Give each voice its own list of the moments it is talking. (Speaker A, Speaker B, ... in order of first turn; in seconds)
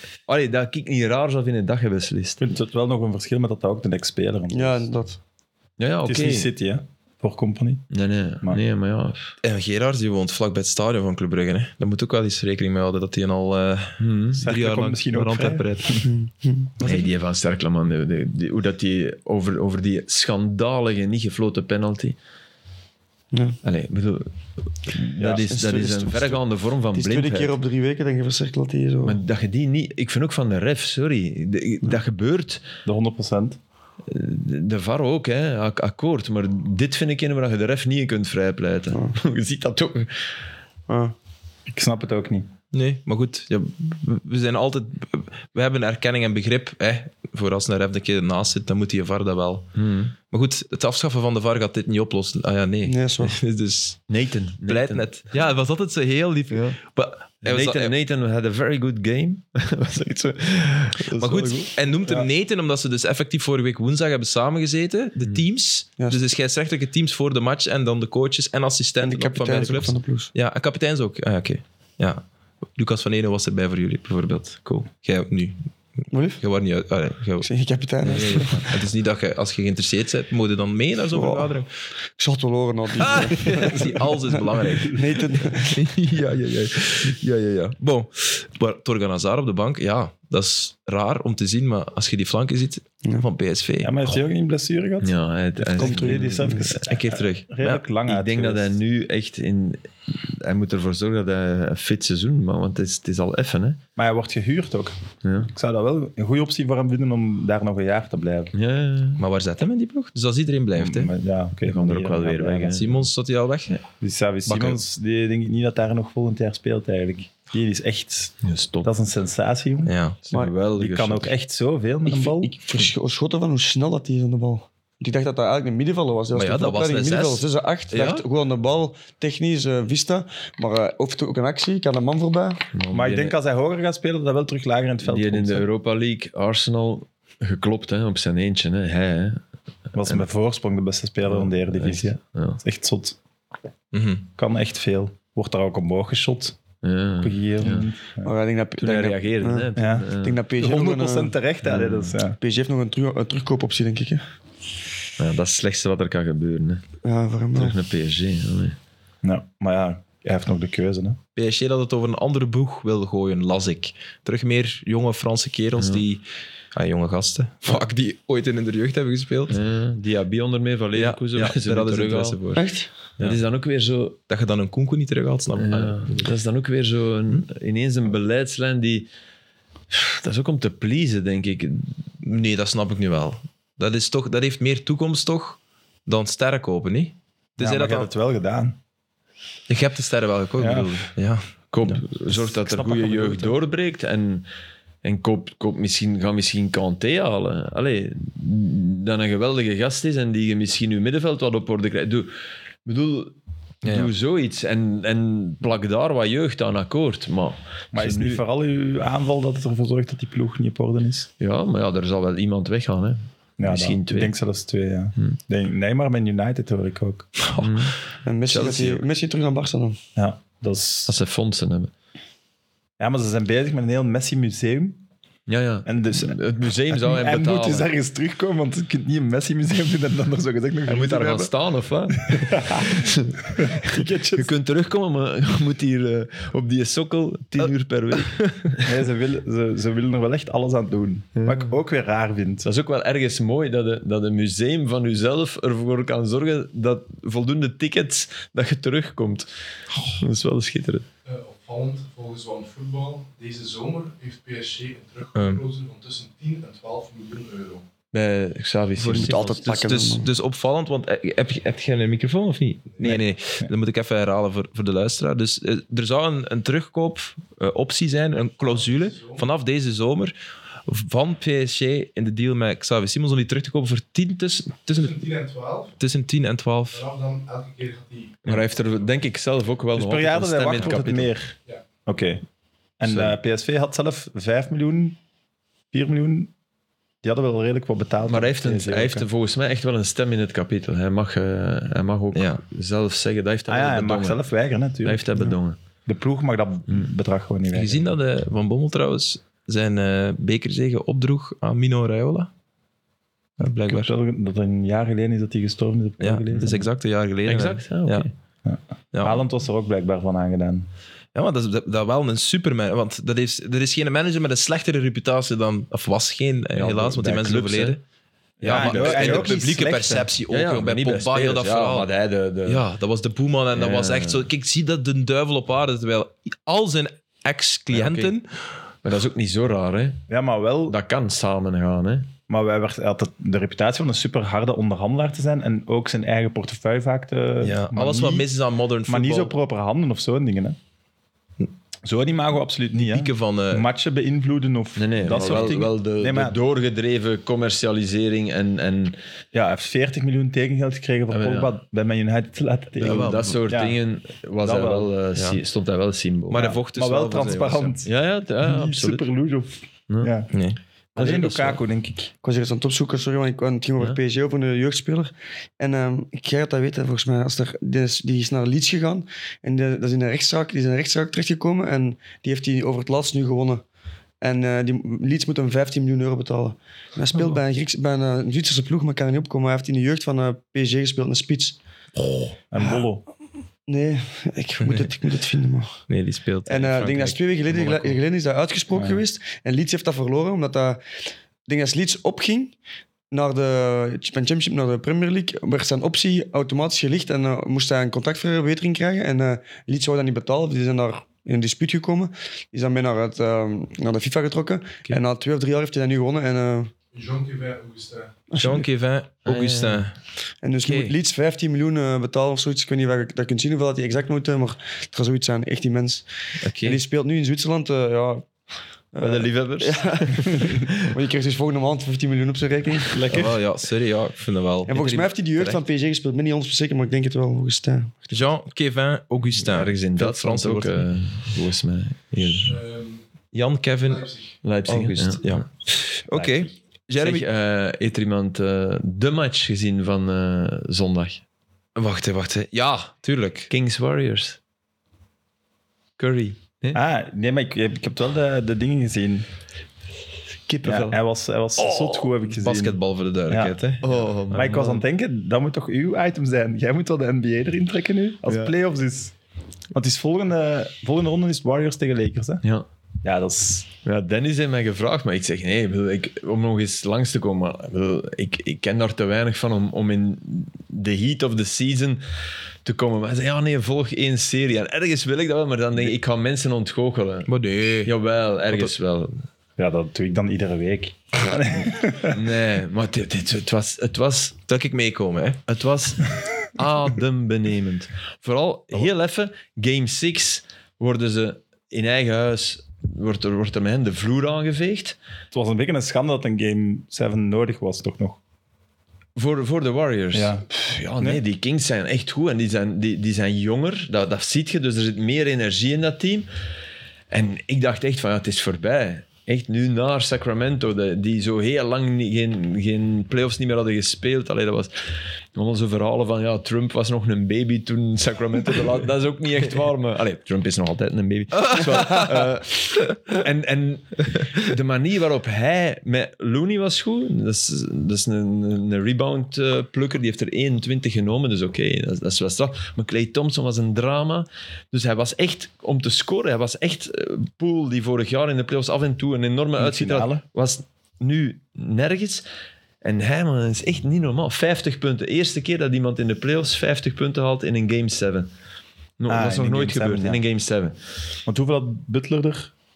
Speaker A: 0.3-2.4, 5.8-6.5, 7.9-9.4, 14.0-14.4, 16.8-22.1, 23.6-27.5, 29.0-32.6, 34.1-40.3, 49.7-50.1, 54.1-55.0, 56.5-56.8, 57.4-61.7, 78.2-78.6, 95.0-96.9, 98.0-103.8, 105.2-105.5, 108.5-109.2, 111.6-113.0, 118.4-118.9, 120.2-121.3, 132.7-133.4, 135.0-139.4, 139.9-140.2, 141.2-142.6, 146.8-147.9, 148.8-150.4, 151.6-152.2, 155.2-156.8, 157.5-158.8, 165.8-166.0, 169.5-172.4, 173.2-174.2, 175.6-179.1, 179.9-181.9, 191.7-194.4, 195.0-202.3, 202.9-208.4, 211.4-214.3, 217.6-218.0, 218.5-219.0, 221.1-221.9, 225.5-227.9, 230.9-238.9, 241.4-241.8, 242.6-249.5, 250.1-251.1, 258.1-259.5, 278.4-281.3, 283.0-283.4, 288.3-294.4, 295.0-295.8, 307.4-308.3, 316.7-318.0, 318.6-319.6, 320.5-322.8, 323.7-324.5, 327.9-328.3, 329.0-330.2, 330.9-332.3, 344.9-349.2, 351.3-351.7, 353.0-356.8, 358.0-359.2, 361.1-361.8, 409.4-410.1, 419.2-421.0, 429.6-432.8, 434.6-435.6, 437.2-441.4, 443.7-444.6, 446.2-447.0, 450.7-451.2, 451.8-452.4, 454.0-455.0, 458.4-458.7, 464.0-472.2, 472.8-477.5, 478.0-479.4, 482.2-484.6, 485.7-495.2, 499.4-506.5, 507.3-542.4, 543.0-548.5, 549.2-551.0
Speaker B: 2.4-4.9, 6.0-7.8, 14.4-16.0, 32.8-33.6, 41.7-42.5, 93.8-98.8, 104.0-105.0, 105.5-108.5, 110.8-112.9, 114.0-119.9, 120.7-122.5, 132.9-135.7, 139.9-143.2, 144.4-146.6, 147.2-148.3, 149.7-152.4, 159.2-161.2, 187.6-188.8, 190.6-191.0, 192.7-193.5, 207.9-211.3, 213.6-217.3, 220.2-221.1, 223.0-225.0, 225.9-226.4, 226.9-231.5, 232.2-234.5, 238.8-242.7, 263.0-263.7, 279.9-281.5, 282.1-282.4, 283.0-285.2, 285.9-286.5, 287.2-289.3, 293.7-298.1, 303.6-306.8, 308.6-310.9, 318.6-320.3, 330.3-331.0, 332.5-338.5, 339.1-340.8, 342.0-346.6, 349.5-354.0, 354.6-355.1, 356.5-358.1, 358.6-360.5, 361.1-362.3, 382.7-383.2, 388.9-389.2, 423.1-423.6, 446.9-449.4, 450.8-453.8, 454.5-459.3, 459.9-462.6, 463.2-463.9, 479.8-482.4, 495.5-498.4, 500.3-500.6, 539.8-540.4, 549.3-550.4, 551.5-552.7
Speaker C: 4.5-5.2, 16.0-16.7, 23.3-23.6, 25.2-26.4, 26.9-29.2, 40.9-41.1, 52.8-53.4, 69.0-70.3, 76.1-76.4, 77.4-78.7, 81.1-81.5, 82.2-84.2, 84.8-85.8, 95.8-96.7, 122.1-132.6, 148.2-151.4, 152.4-154.2, 157.0-157.7, 172.5-172.9, 218.2-220.0, 259.1-260.3, 362.4-373.8, 374.4-381.8, 383.9-386.0, 386.6-391.0, 391.7-392.7, 393.3-406.9, 408.5-408.8, 410.6-418.5, 419.1-423.2, 424.9-428.2
Speaker D: 9.4-16.1, 16.8-17.1, 42.7-49.7, 50.3-54.0, 54.6-57.9, 61.1-75.6, 76.4-77.5, 78.0-81.7, 83.0-94.0, 96.8-97.8, 109.2-111.1, 112.7-113.8, 114.5-114.8, 119.8-120.2, 126.3-128.2, 143.9-144.2, 161.4-169.6, 170.9-172.7, 174.3-176.2, 182.2-188.1, 189.7-192.0, 203.8-204.1, 217.5-217.8, 238.2-238.7, 255.4-255.6, 259.0-270.3, 270.9-275.2, 276.0-277.0, 292.3-292.6, 297.7-302.5, 303.6-304.1, 306.2-308.3, 309.1-309.4, 311.3-318.0, 318.6-322.1, 322.6-328.5, 337.6-339.5, 342.9-343.9, 345.3-345.8, 353.0-353.5, 356.5-357.9, 360.5-360.8, 384.8-385.1, 386.1-388.2, 408.6-410.2, 410.8-411.1, 416.6-417.0, 423.3-425.8, 428.3-431.1, 433.5-434.3, 434.9-437.5, 441.9-443.7, 452.6-454.0, 477.5-478.1, 484.7-485.6, 521.6-522.5
Speaker E: 251.2-257.8, 268.7-269.4, 274.9-276.0, 276.9-278.6, 407.1-408.5, 432.6-433.2, 434.0-434.6